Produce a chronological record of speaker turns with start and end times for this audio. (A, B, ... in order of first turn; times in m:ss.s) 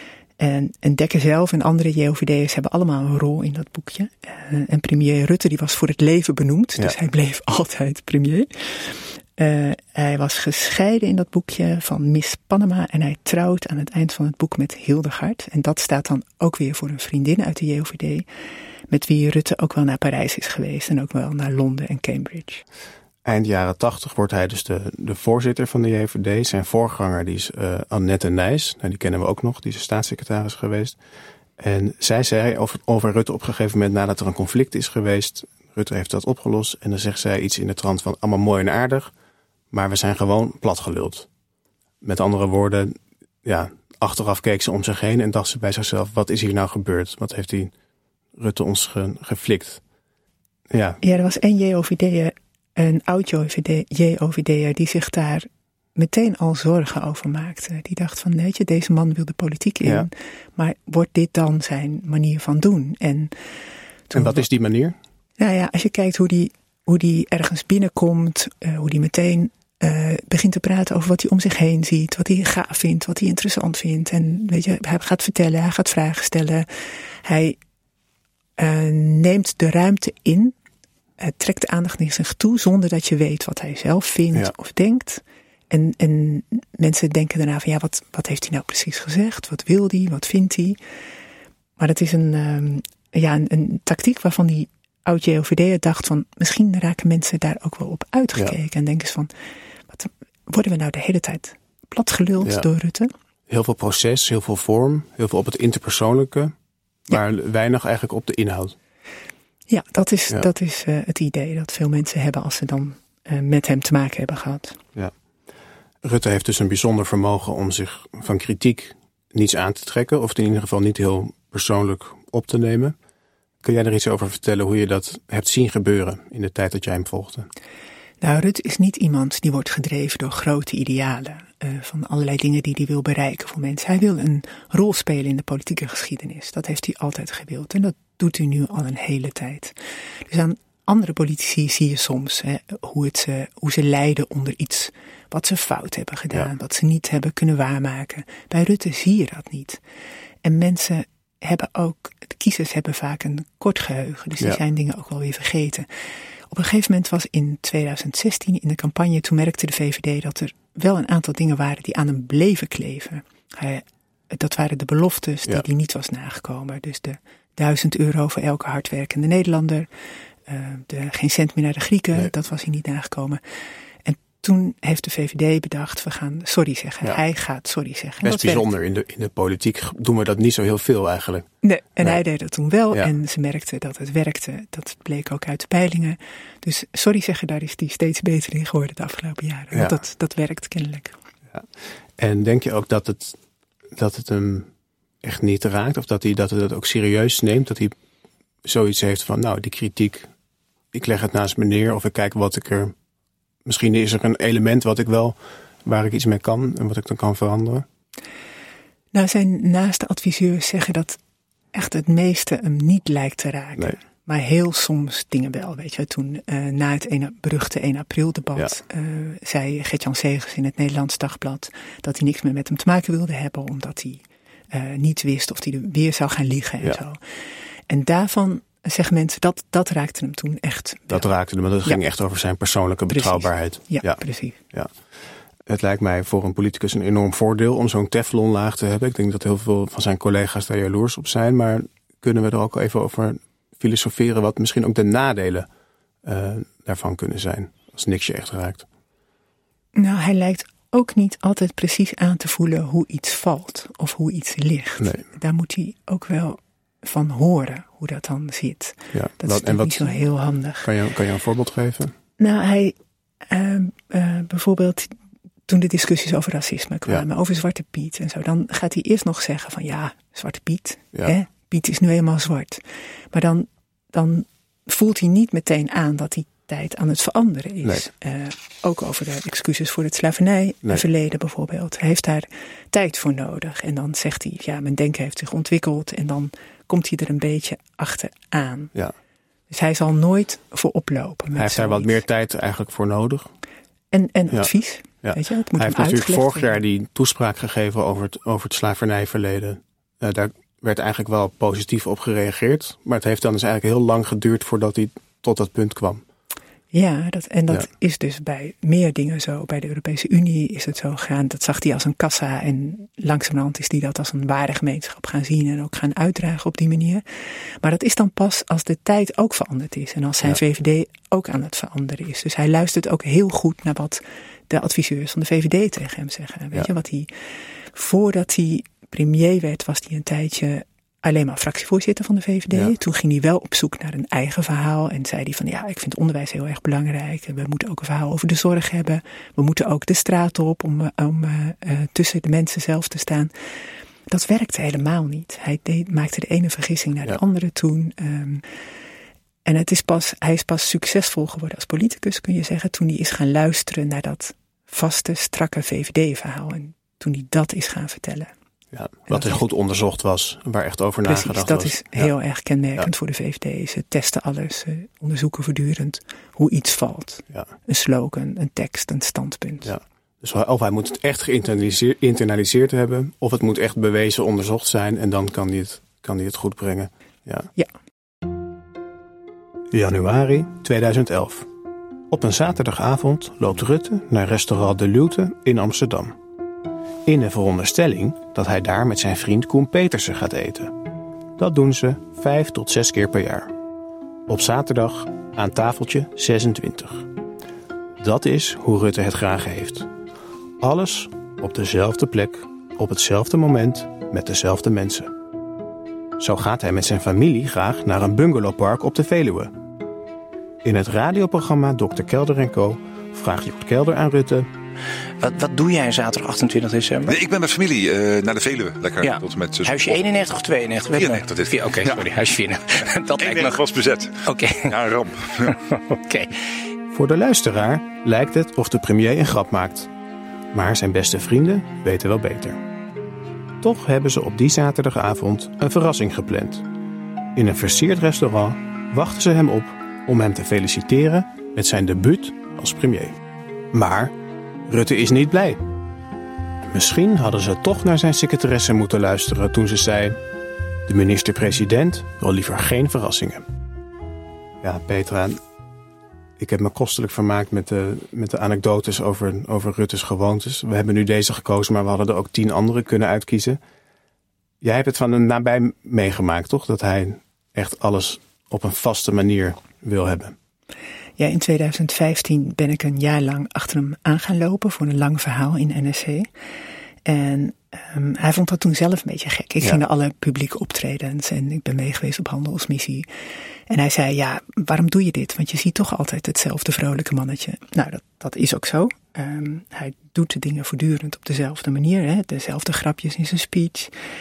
0:00.4-0:18.2 A
0:18.9-0:22.6 A
0:23.2-0:31.0 B
0:31.6-0:39.1 B
0:39.7-0:41.3 B
0:42.0-0:47.7 B
0:48.4-0:49.8 B
0:50.7-0:51.0 B
0:51.0-1:03.3 A
0:59.8-1:00.1 B
1:04.1-1:04.4 A
1:04.1-1:05.0 B
1:05.4-1:17.6 A
1:18.6-1:20.5 A
1:21.2-1:30.8 A
1:31.8-1:39.3 A
1:39.9-1:43.1 A
1:43.5-1:46.5 B
1:47.1-1:48.8 B
1:49.7-1:54.8 A
1:56.0-2:03.0 B
2:03.6-2:07.5 B
2:08.2-2:19.7 A
2:20.3-2:29.8 A
2:30.4-2:35.9 A
2:36.5-2:49.9 A
2:50.5-2:53.4 A
2:54.0-2:58.7 A
2:58.2-3:02.2 B
3:01.6-3:11.2 A
3:09.7-3:10.0 B
3:11.5-3:13.4 B
3:13.9-3:14.7 B
3:15.2-3:17.9 B
3:18.6-3:20.3 B
3:20.9-3:22.9 B
3:23.6-3:27.8 B
3:29.1-3:31.2 A
3:31.7-3:47.2 A
3:47.9-3:51.3 A
3:51.1-3:54.2 B
3:53.1-3:54.6 A
3:55.6-4:05.7 B
4:06.2-4:08.8 B
4:09.9-4:20.9 A
4:19.1-4:20.2 B
4:20.8-4:22.1 B
4:22.4-4:22.9 A
4:23.5-4:25.1 A
4:25.7-4:32.8 A
4:33.3-4:48.9 A
4:49.7-4:52.2 A
4:51.6-4:53.5 B
4:54.1-4:56.8 A
4:55.2-5:06.2 B
5:06.9-5:17.2 A
5:17.8-5:27.3 A
5:27.9-5:43.5 A
5:44.3-5:48.6 A
5:49.6-5:58.5 A
5:58.9-6:02.3 B
5:59.3-5:59.6 A
6:01.2-6:09.9 A
6:09.8-6:17.7 B
6:19.9-6:21.7 B
6:22.3-6:26.4 B
6:27.2-6:31.0 B
6:31.6-6:33.7 B
6:34.5-6:37.3 B
6:38.2-6:40.1 B
6:40.8-6:45.3 B
6:46.4-6:49.7 B
6:50.8-6:54.7 B
6:55.4-6:57.4 C
6:57.2-7:00.1 D
6:59.2-7:03.8 C
7:01.1-7:02.1 D
7:03.4-7:05.5 D
7:04.4-7:05.1 C
7:06.1-7:06.5 C
7:07.1-7:10.1 B
7:10.7-7:12.8 B
7:13.8-7:16.9 B
7:17.5-7:23.4 B
7:23.9-7:24.4 B
7:24.9-7:25.9 B
7:26.9-7:30.4 B
7:31.0-7:33.6 B
7:34.8-7:35.6 B
7:36.6-7:43.8 B
7:44.8-7:50.6 B
7:51.4-7:56.5 A
7:57.2-8:03.2 A
8:03.9-8:14.1 A